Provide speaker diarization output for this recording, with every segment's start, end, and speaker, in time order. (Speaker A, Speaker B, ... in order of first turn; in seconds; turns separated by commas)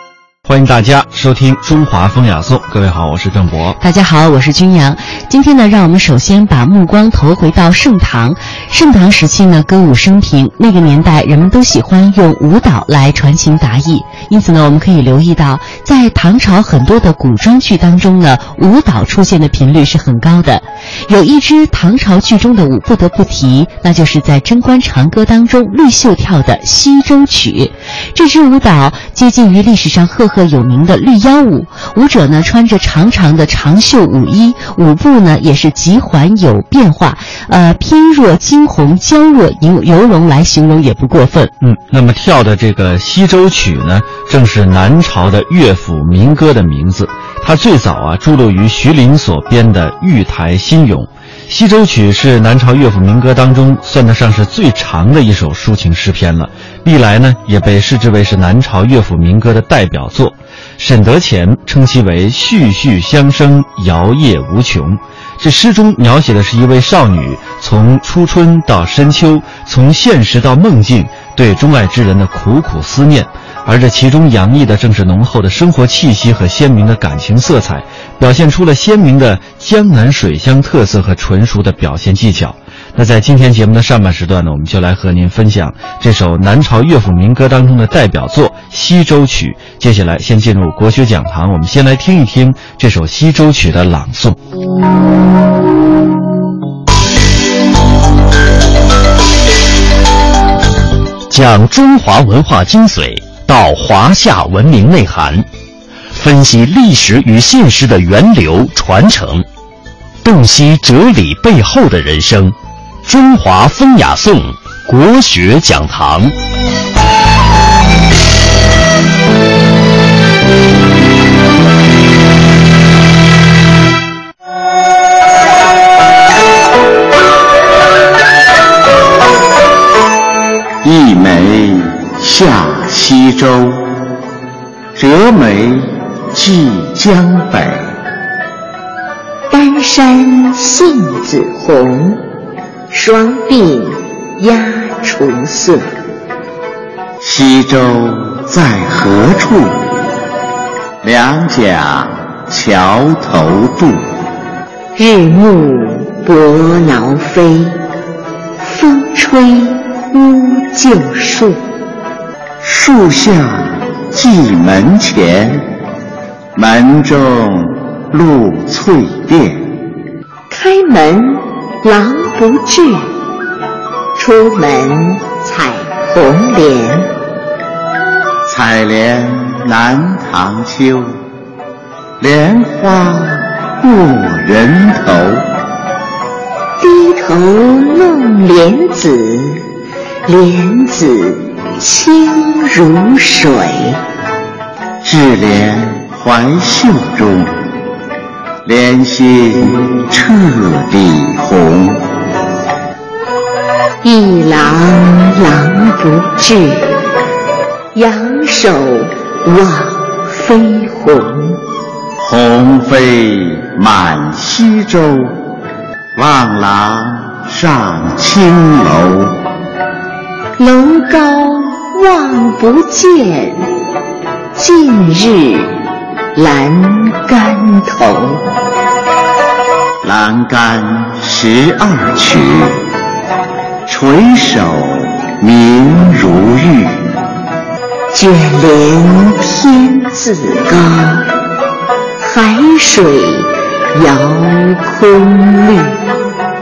Speaker A: 0.4-3.8, Speaker B: 3.8-41.5, Speaker A: 41.6-94.4, Speaker C: 101.3-105.5, Speaker C: 106.1-109.5, Speaker C: 110.2-116.3, Speaker D: 130.8-134.0, Speaker D: 134.9-137.8, Speaker E: 139.5-142.2, Speaker E: 142.9-145.9, Speaker D: 147.2-149.9, Speaker D: 151.0-154.0, Speaker E: 154.9-157.8, Speaker E: 158.6-161.6, Speaker D: 162.6-165.7, Speaker D: 166.6-169.7, Speaker E: 170.5-173.1, Speaker E: 174.2-177.1, Speaker D: 178.4-181.2, Speaker D: 182.2-185.4, Speaker E: 186.8-189.6, Speaker E: 190.3-194.0, Speaker D: 195.0-197.6, Speaker D: 198.6-202.0, Speaker E: 204.0-206.9, Speaker E: 207.9-211.6, Speaker D: 212.2-215.4, Speaker D: 216.1-219.4, Speaker E: 220.6-223.7, Speaker E: 224.6-225.8, Speaker E: 226.3-228.4, Speaker D: 230.0-232.8, Speaker D: 233.9-237.2, Speaker E: 238.1-241.3, Speaker E: 242.2-246.0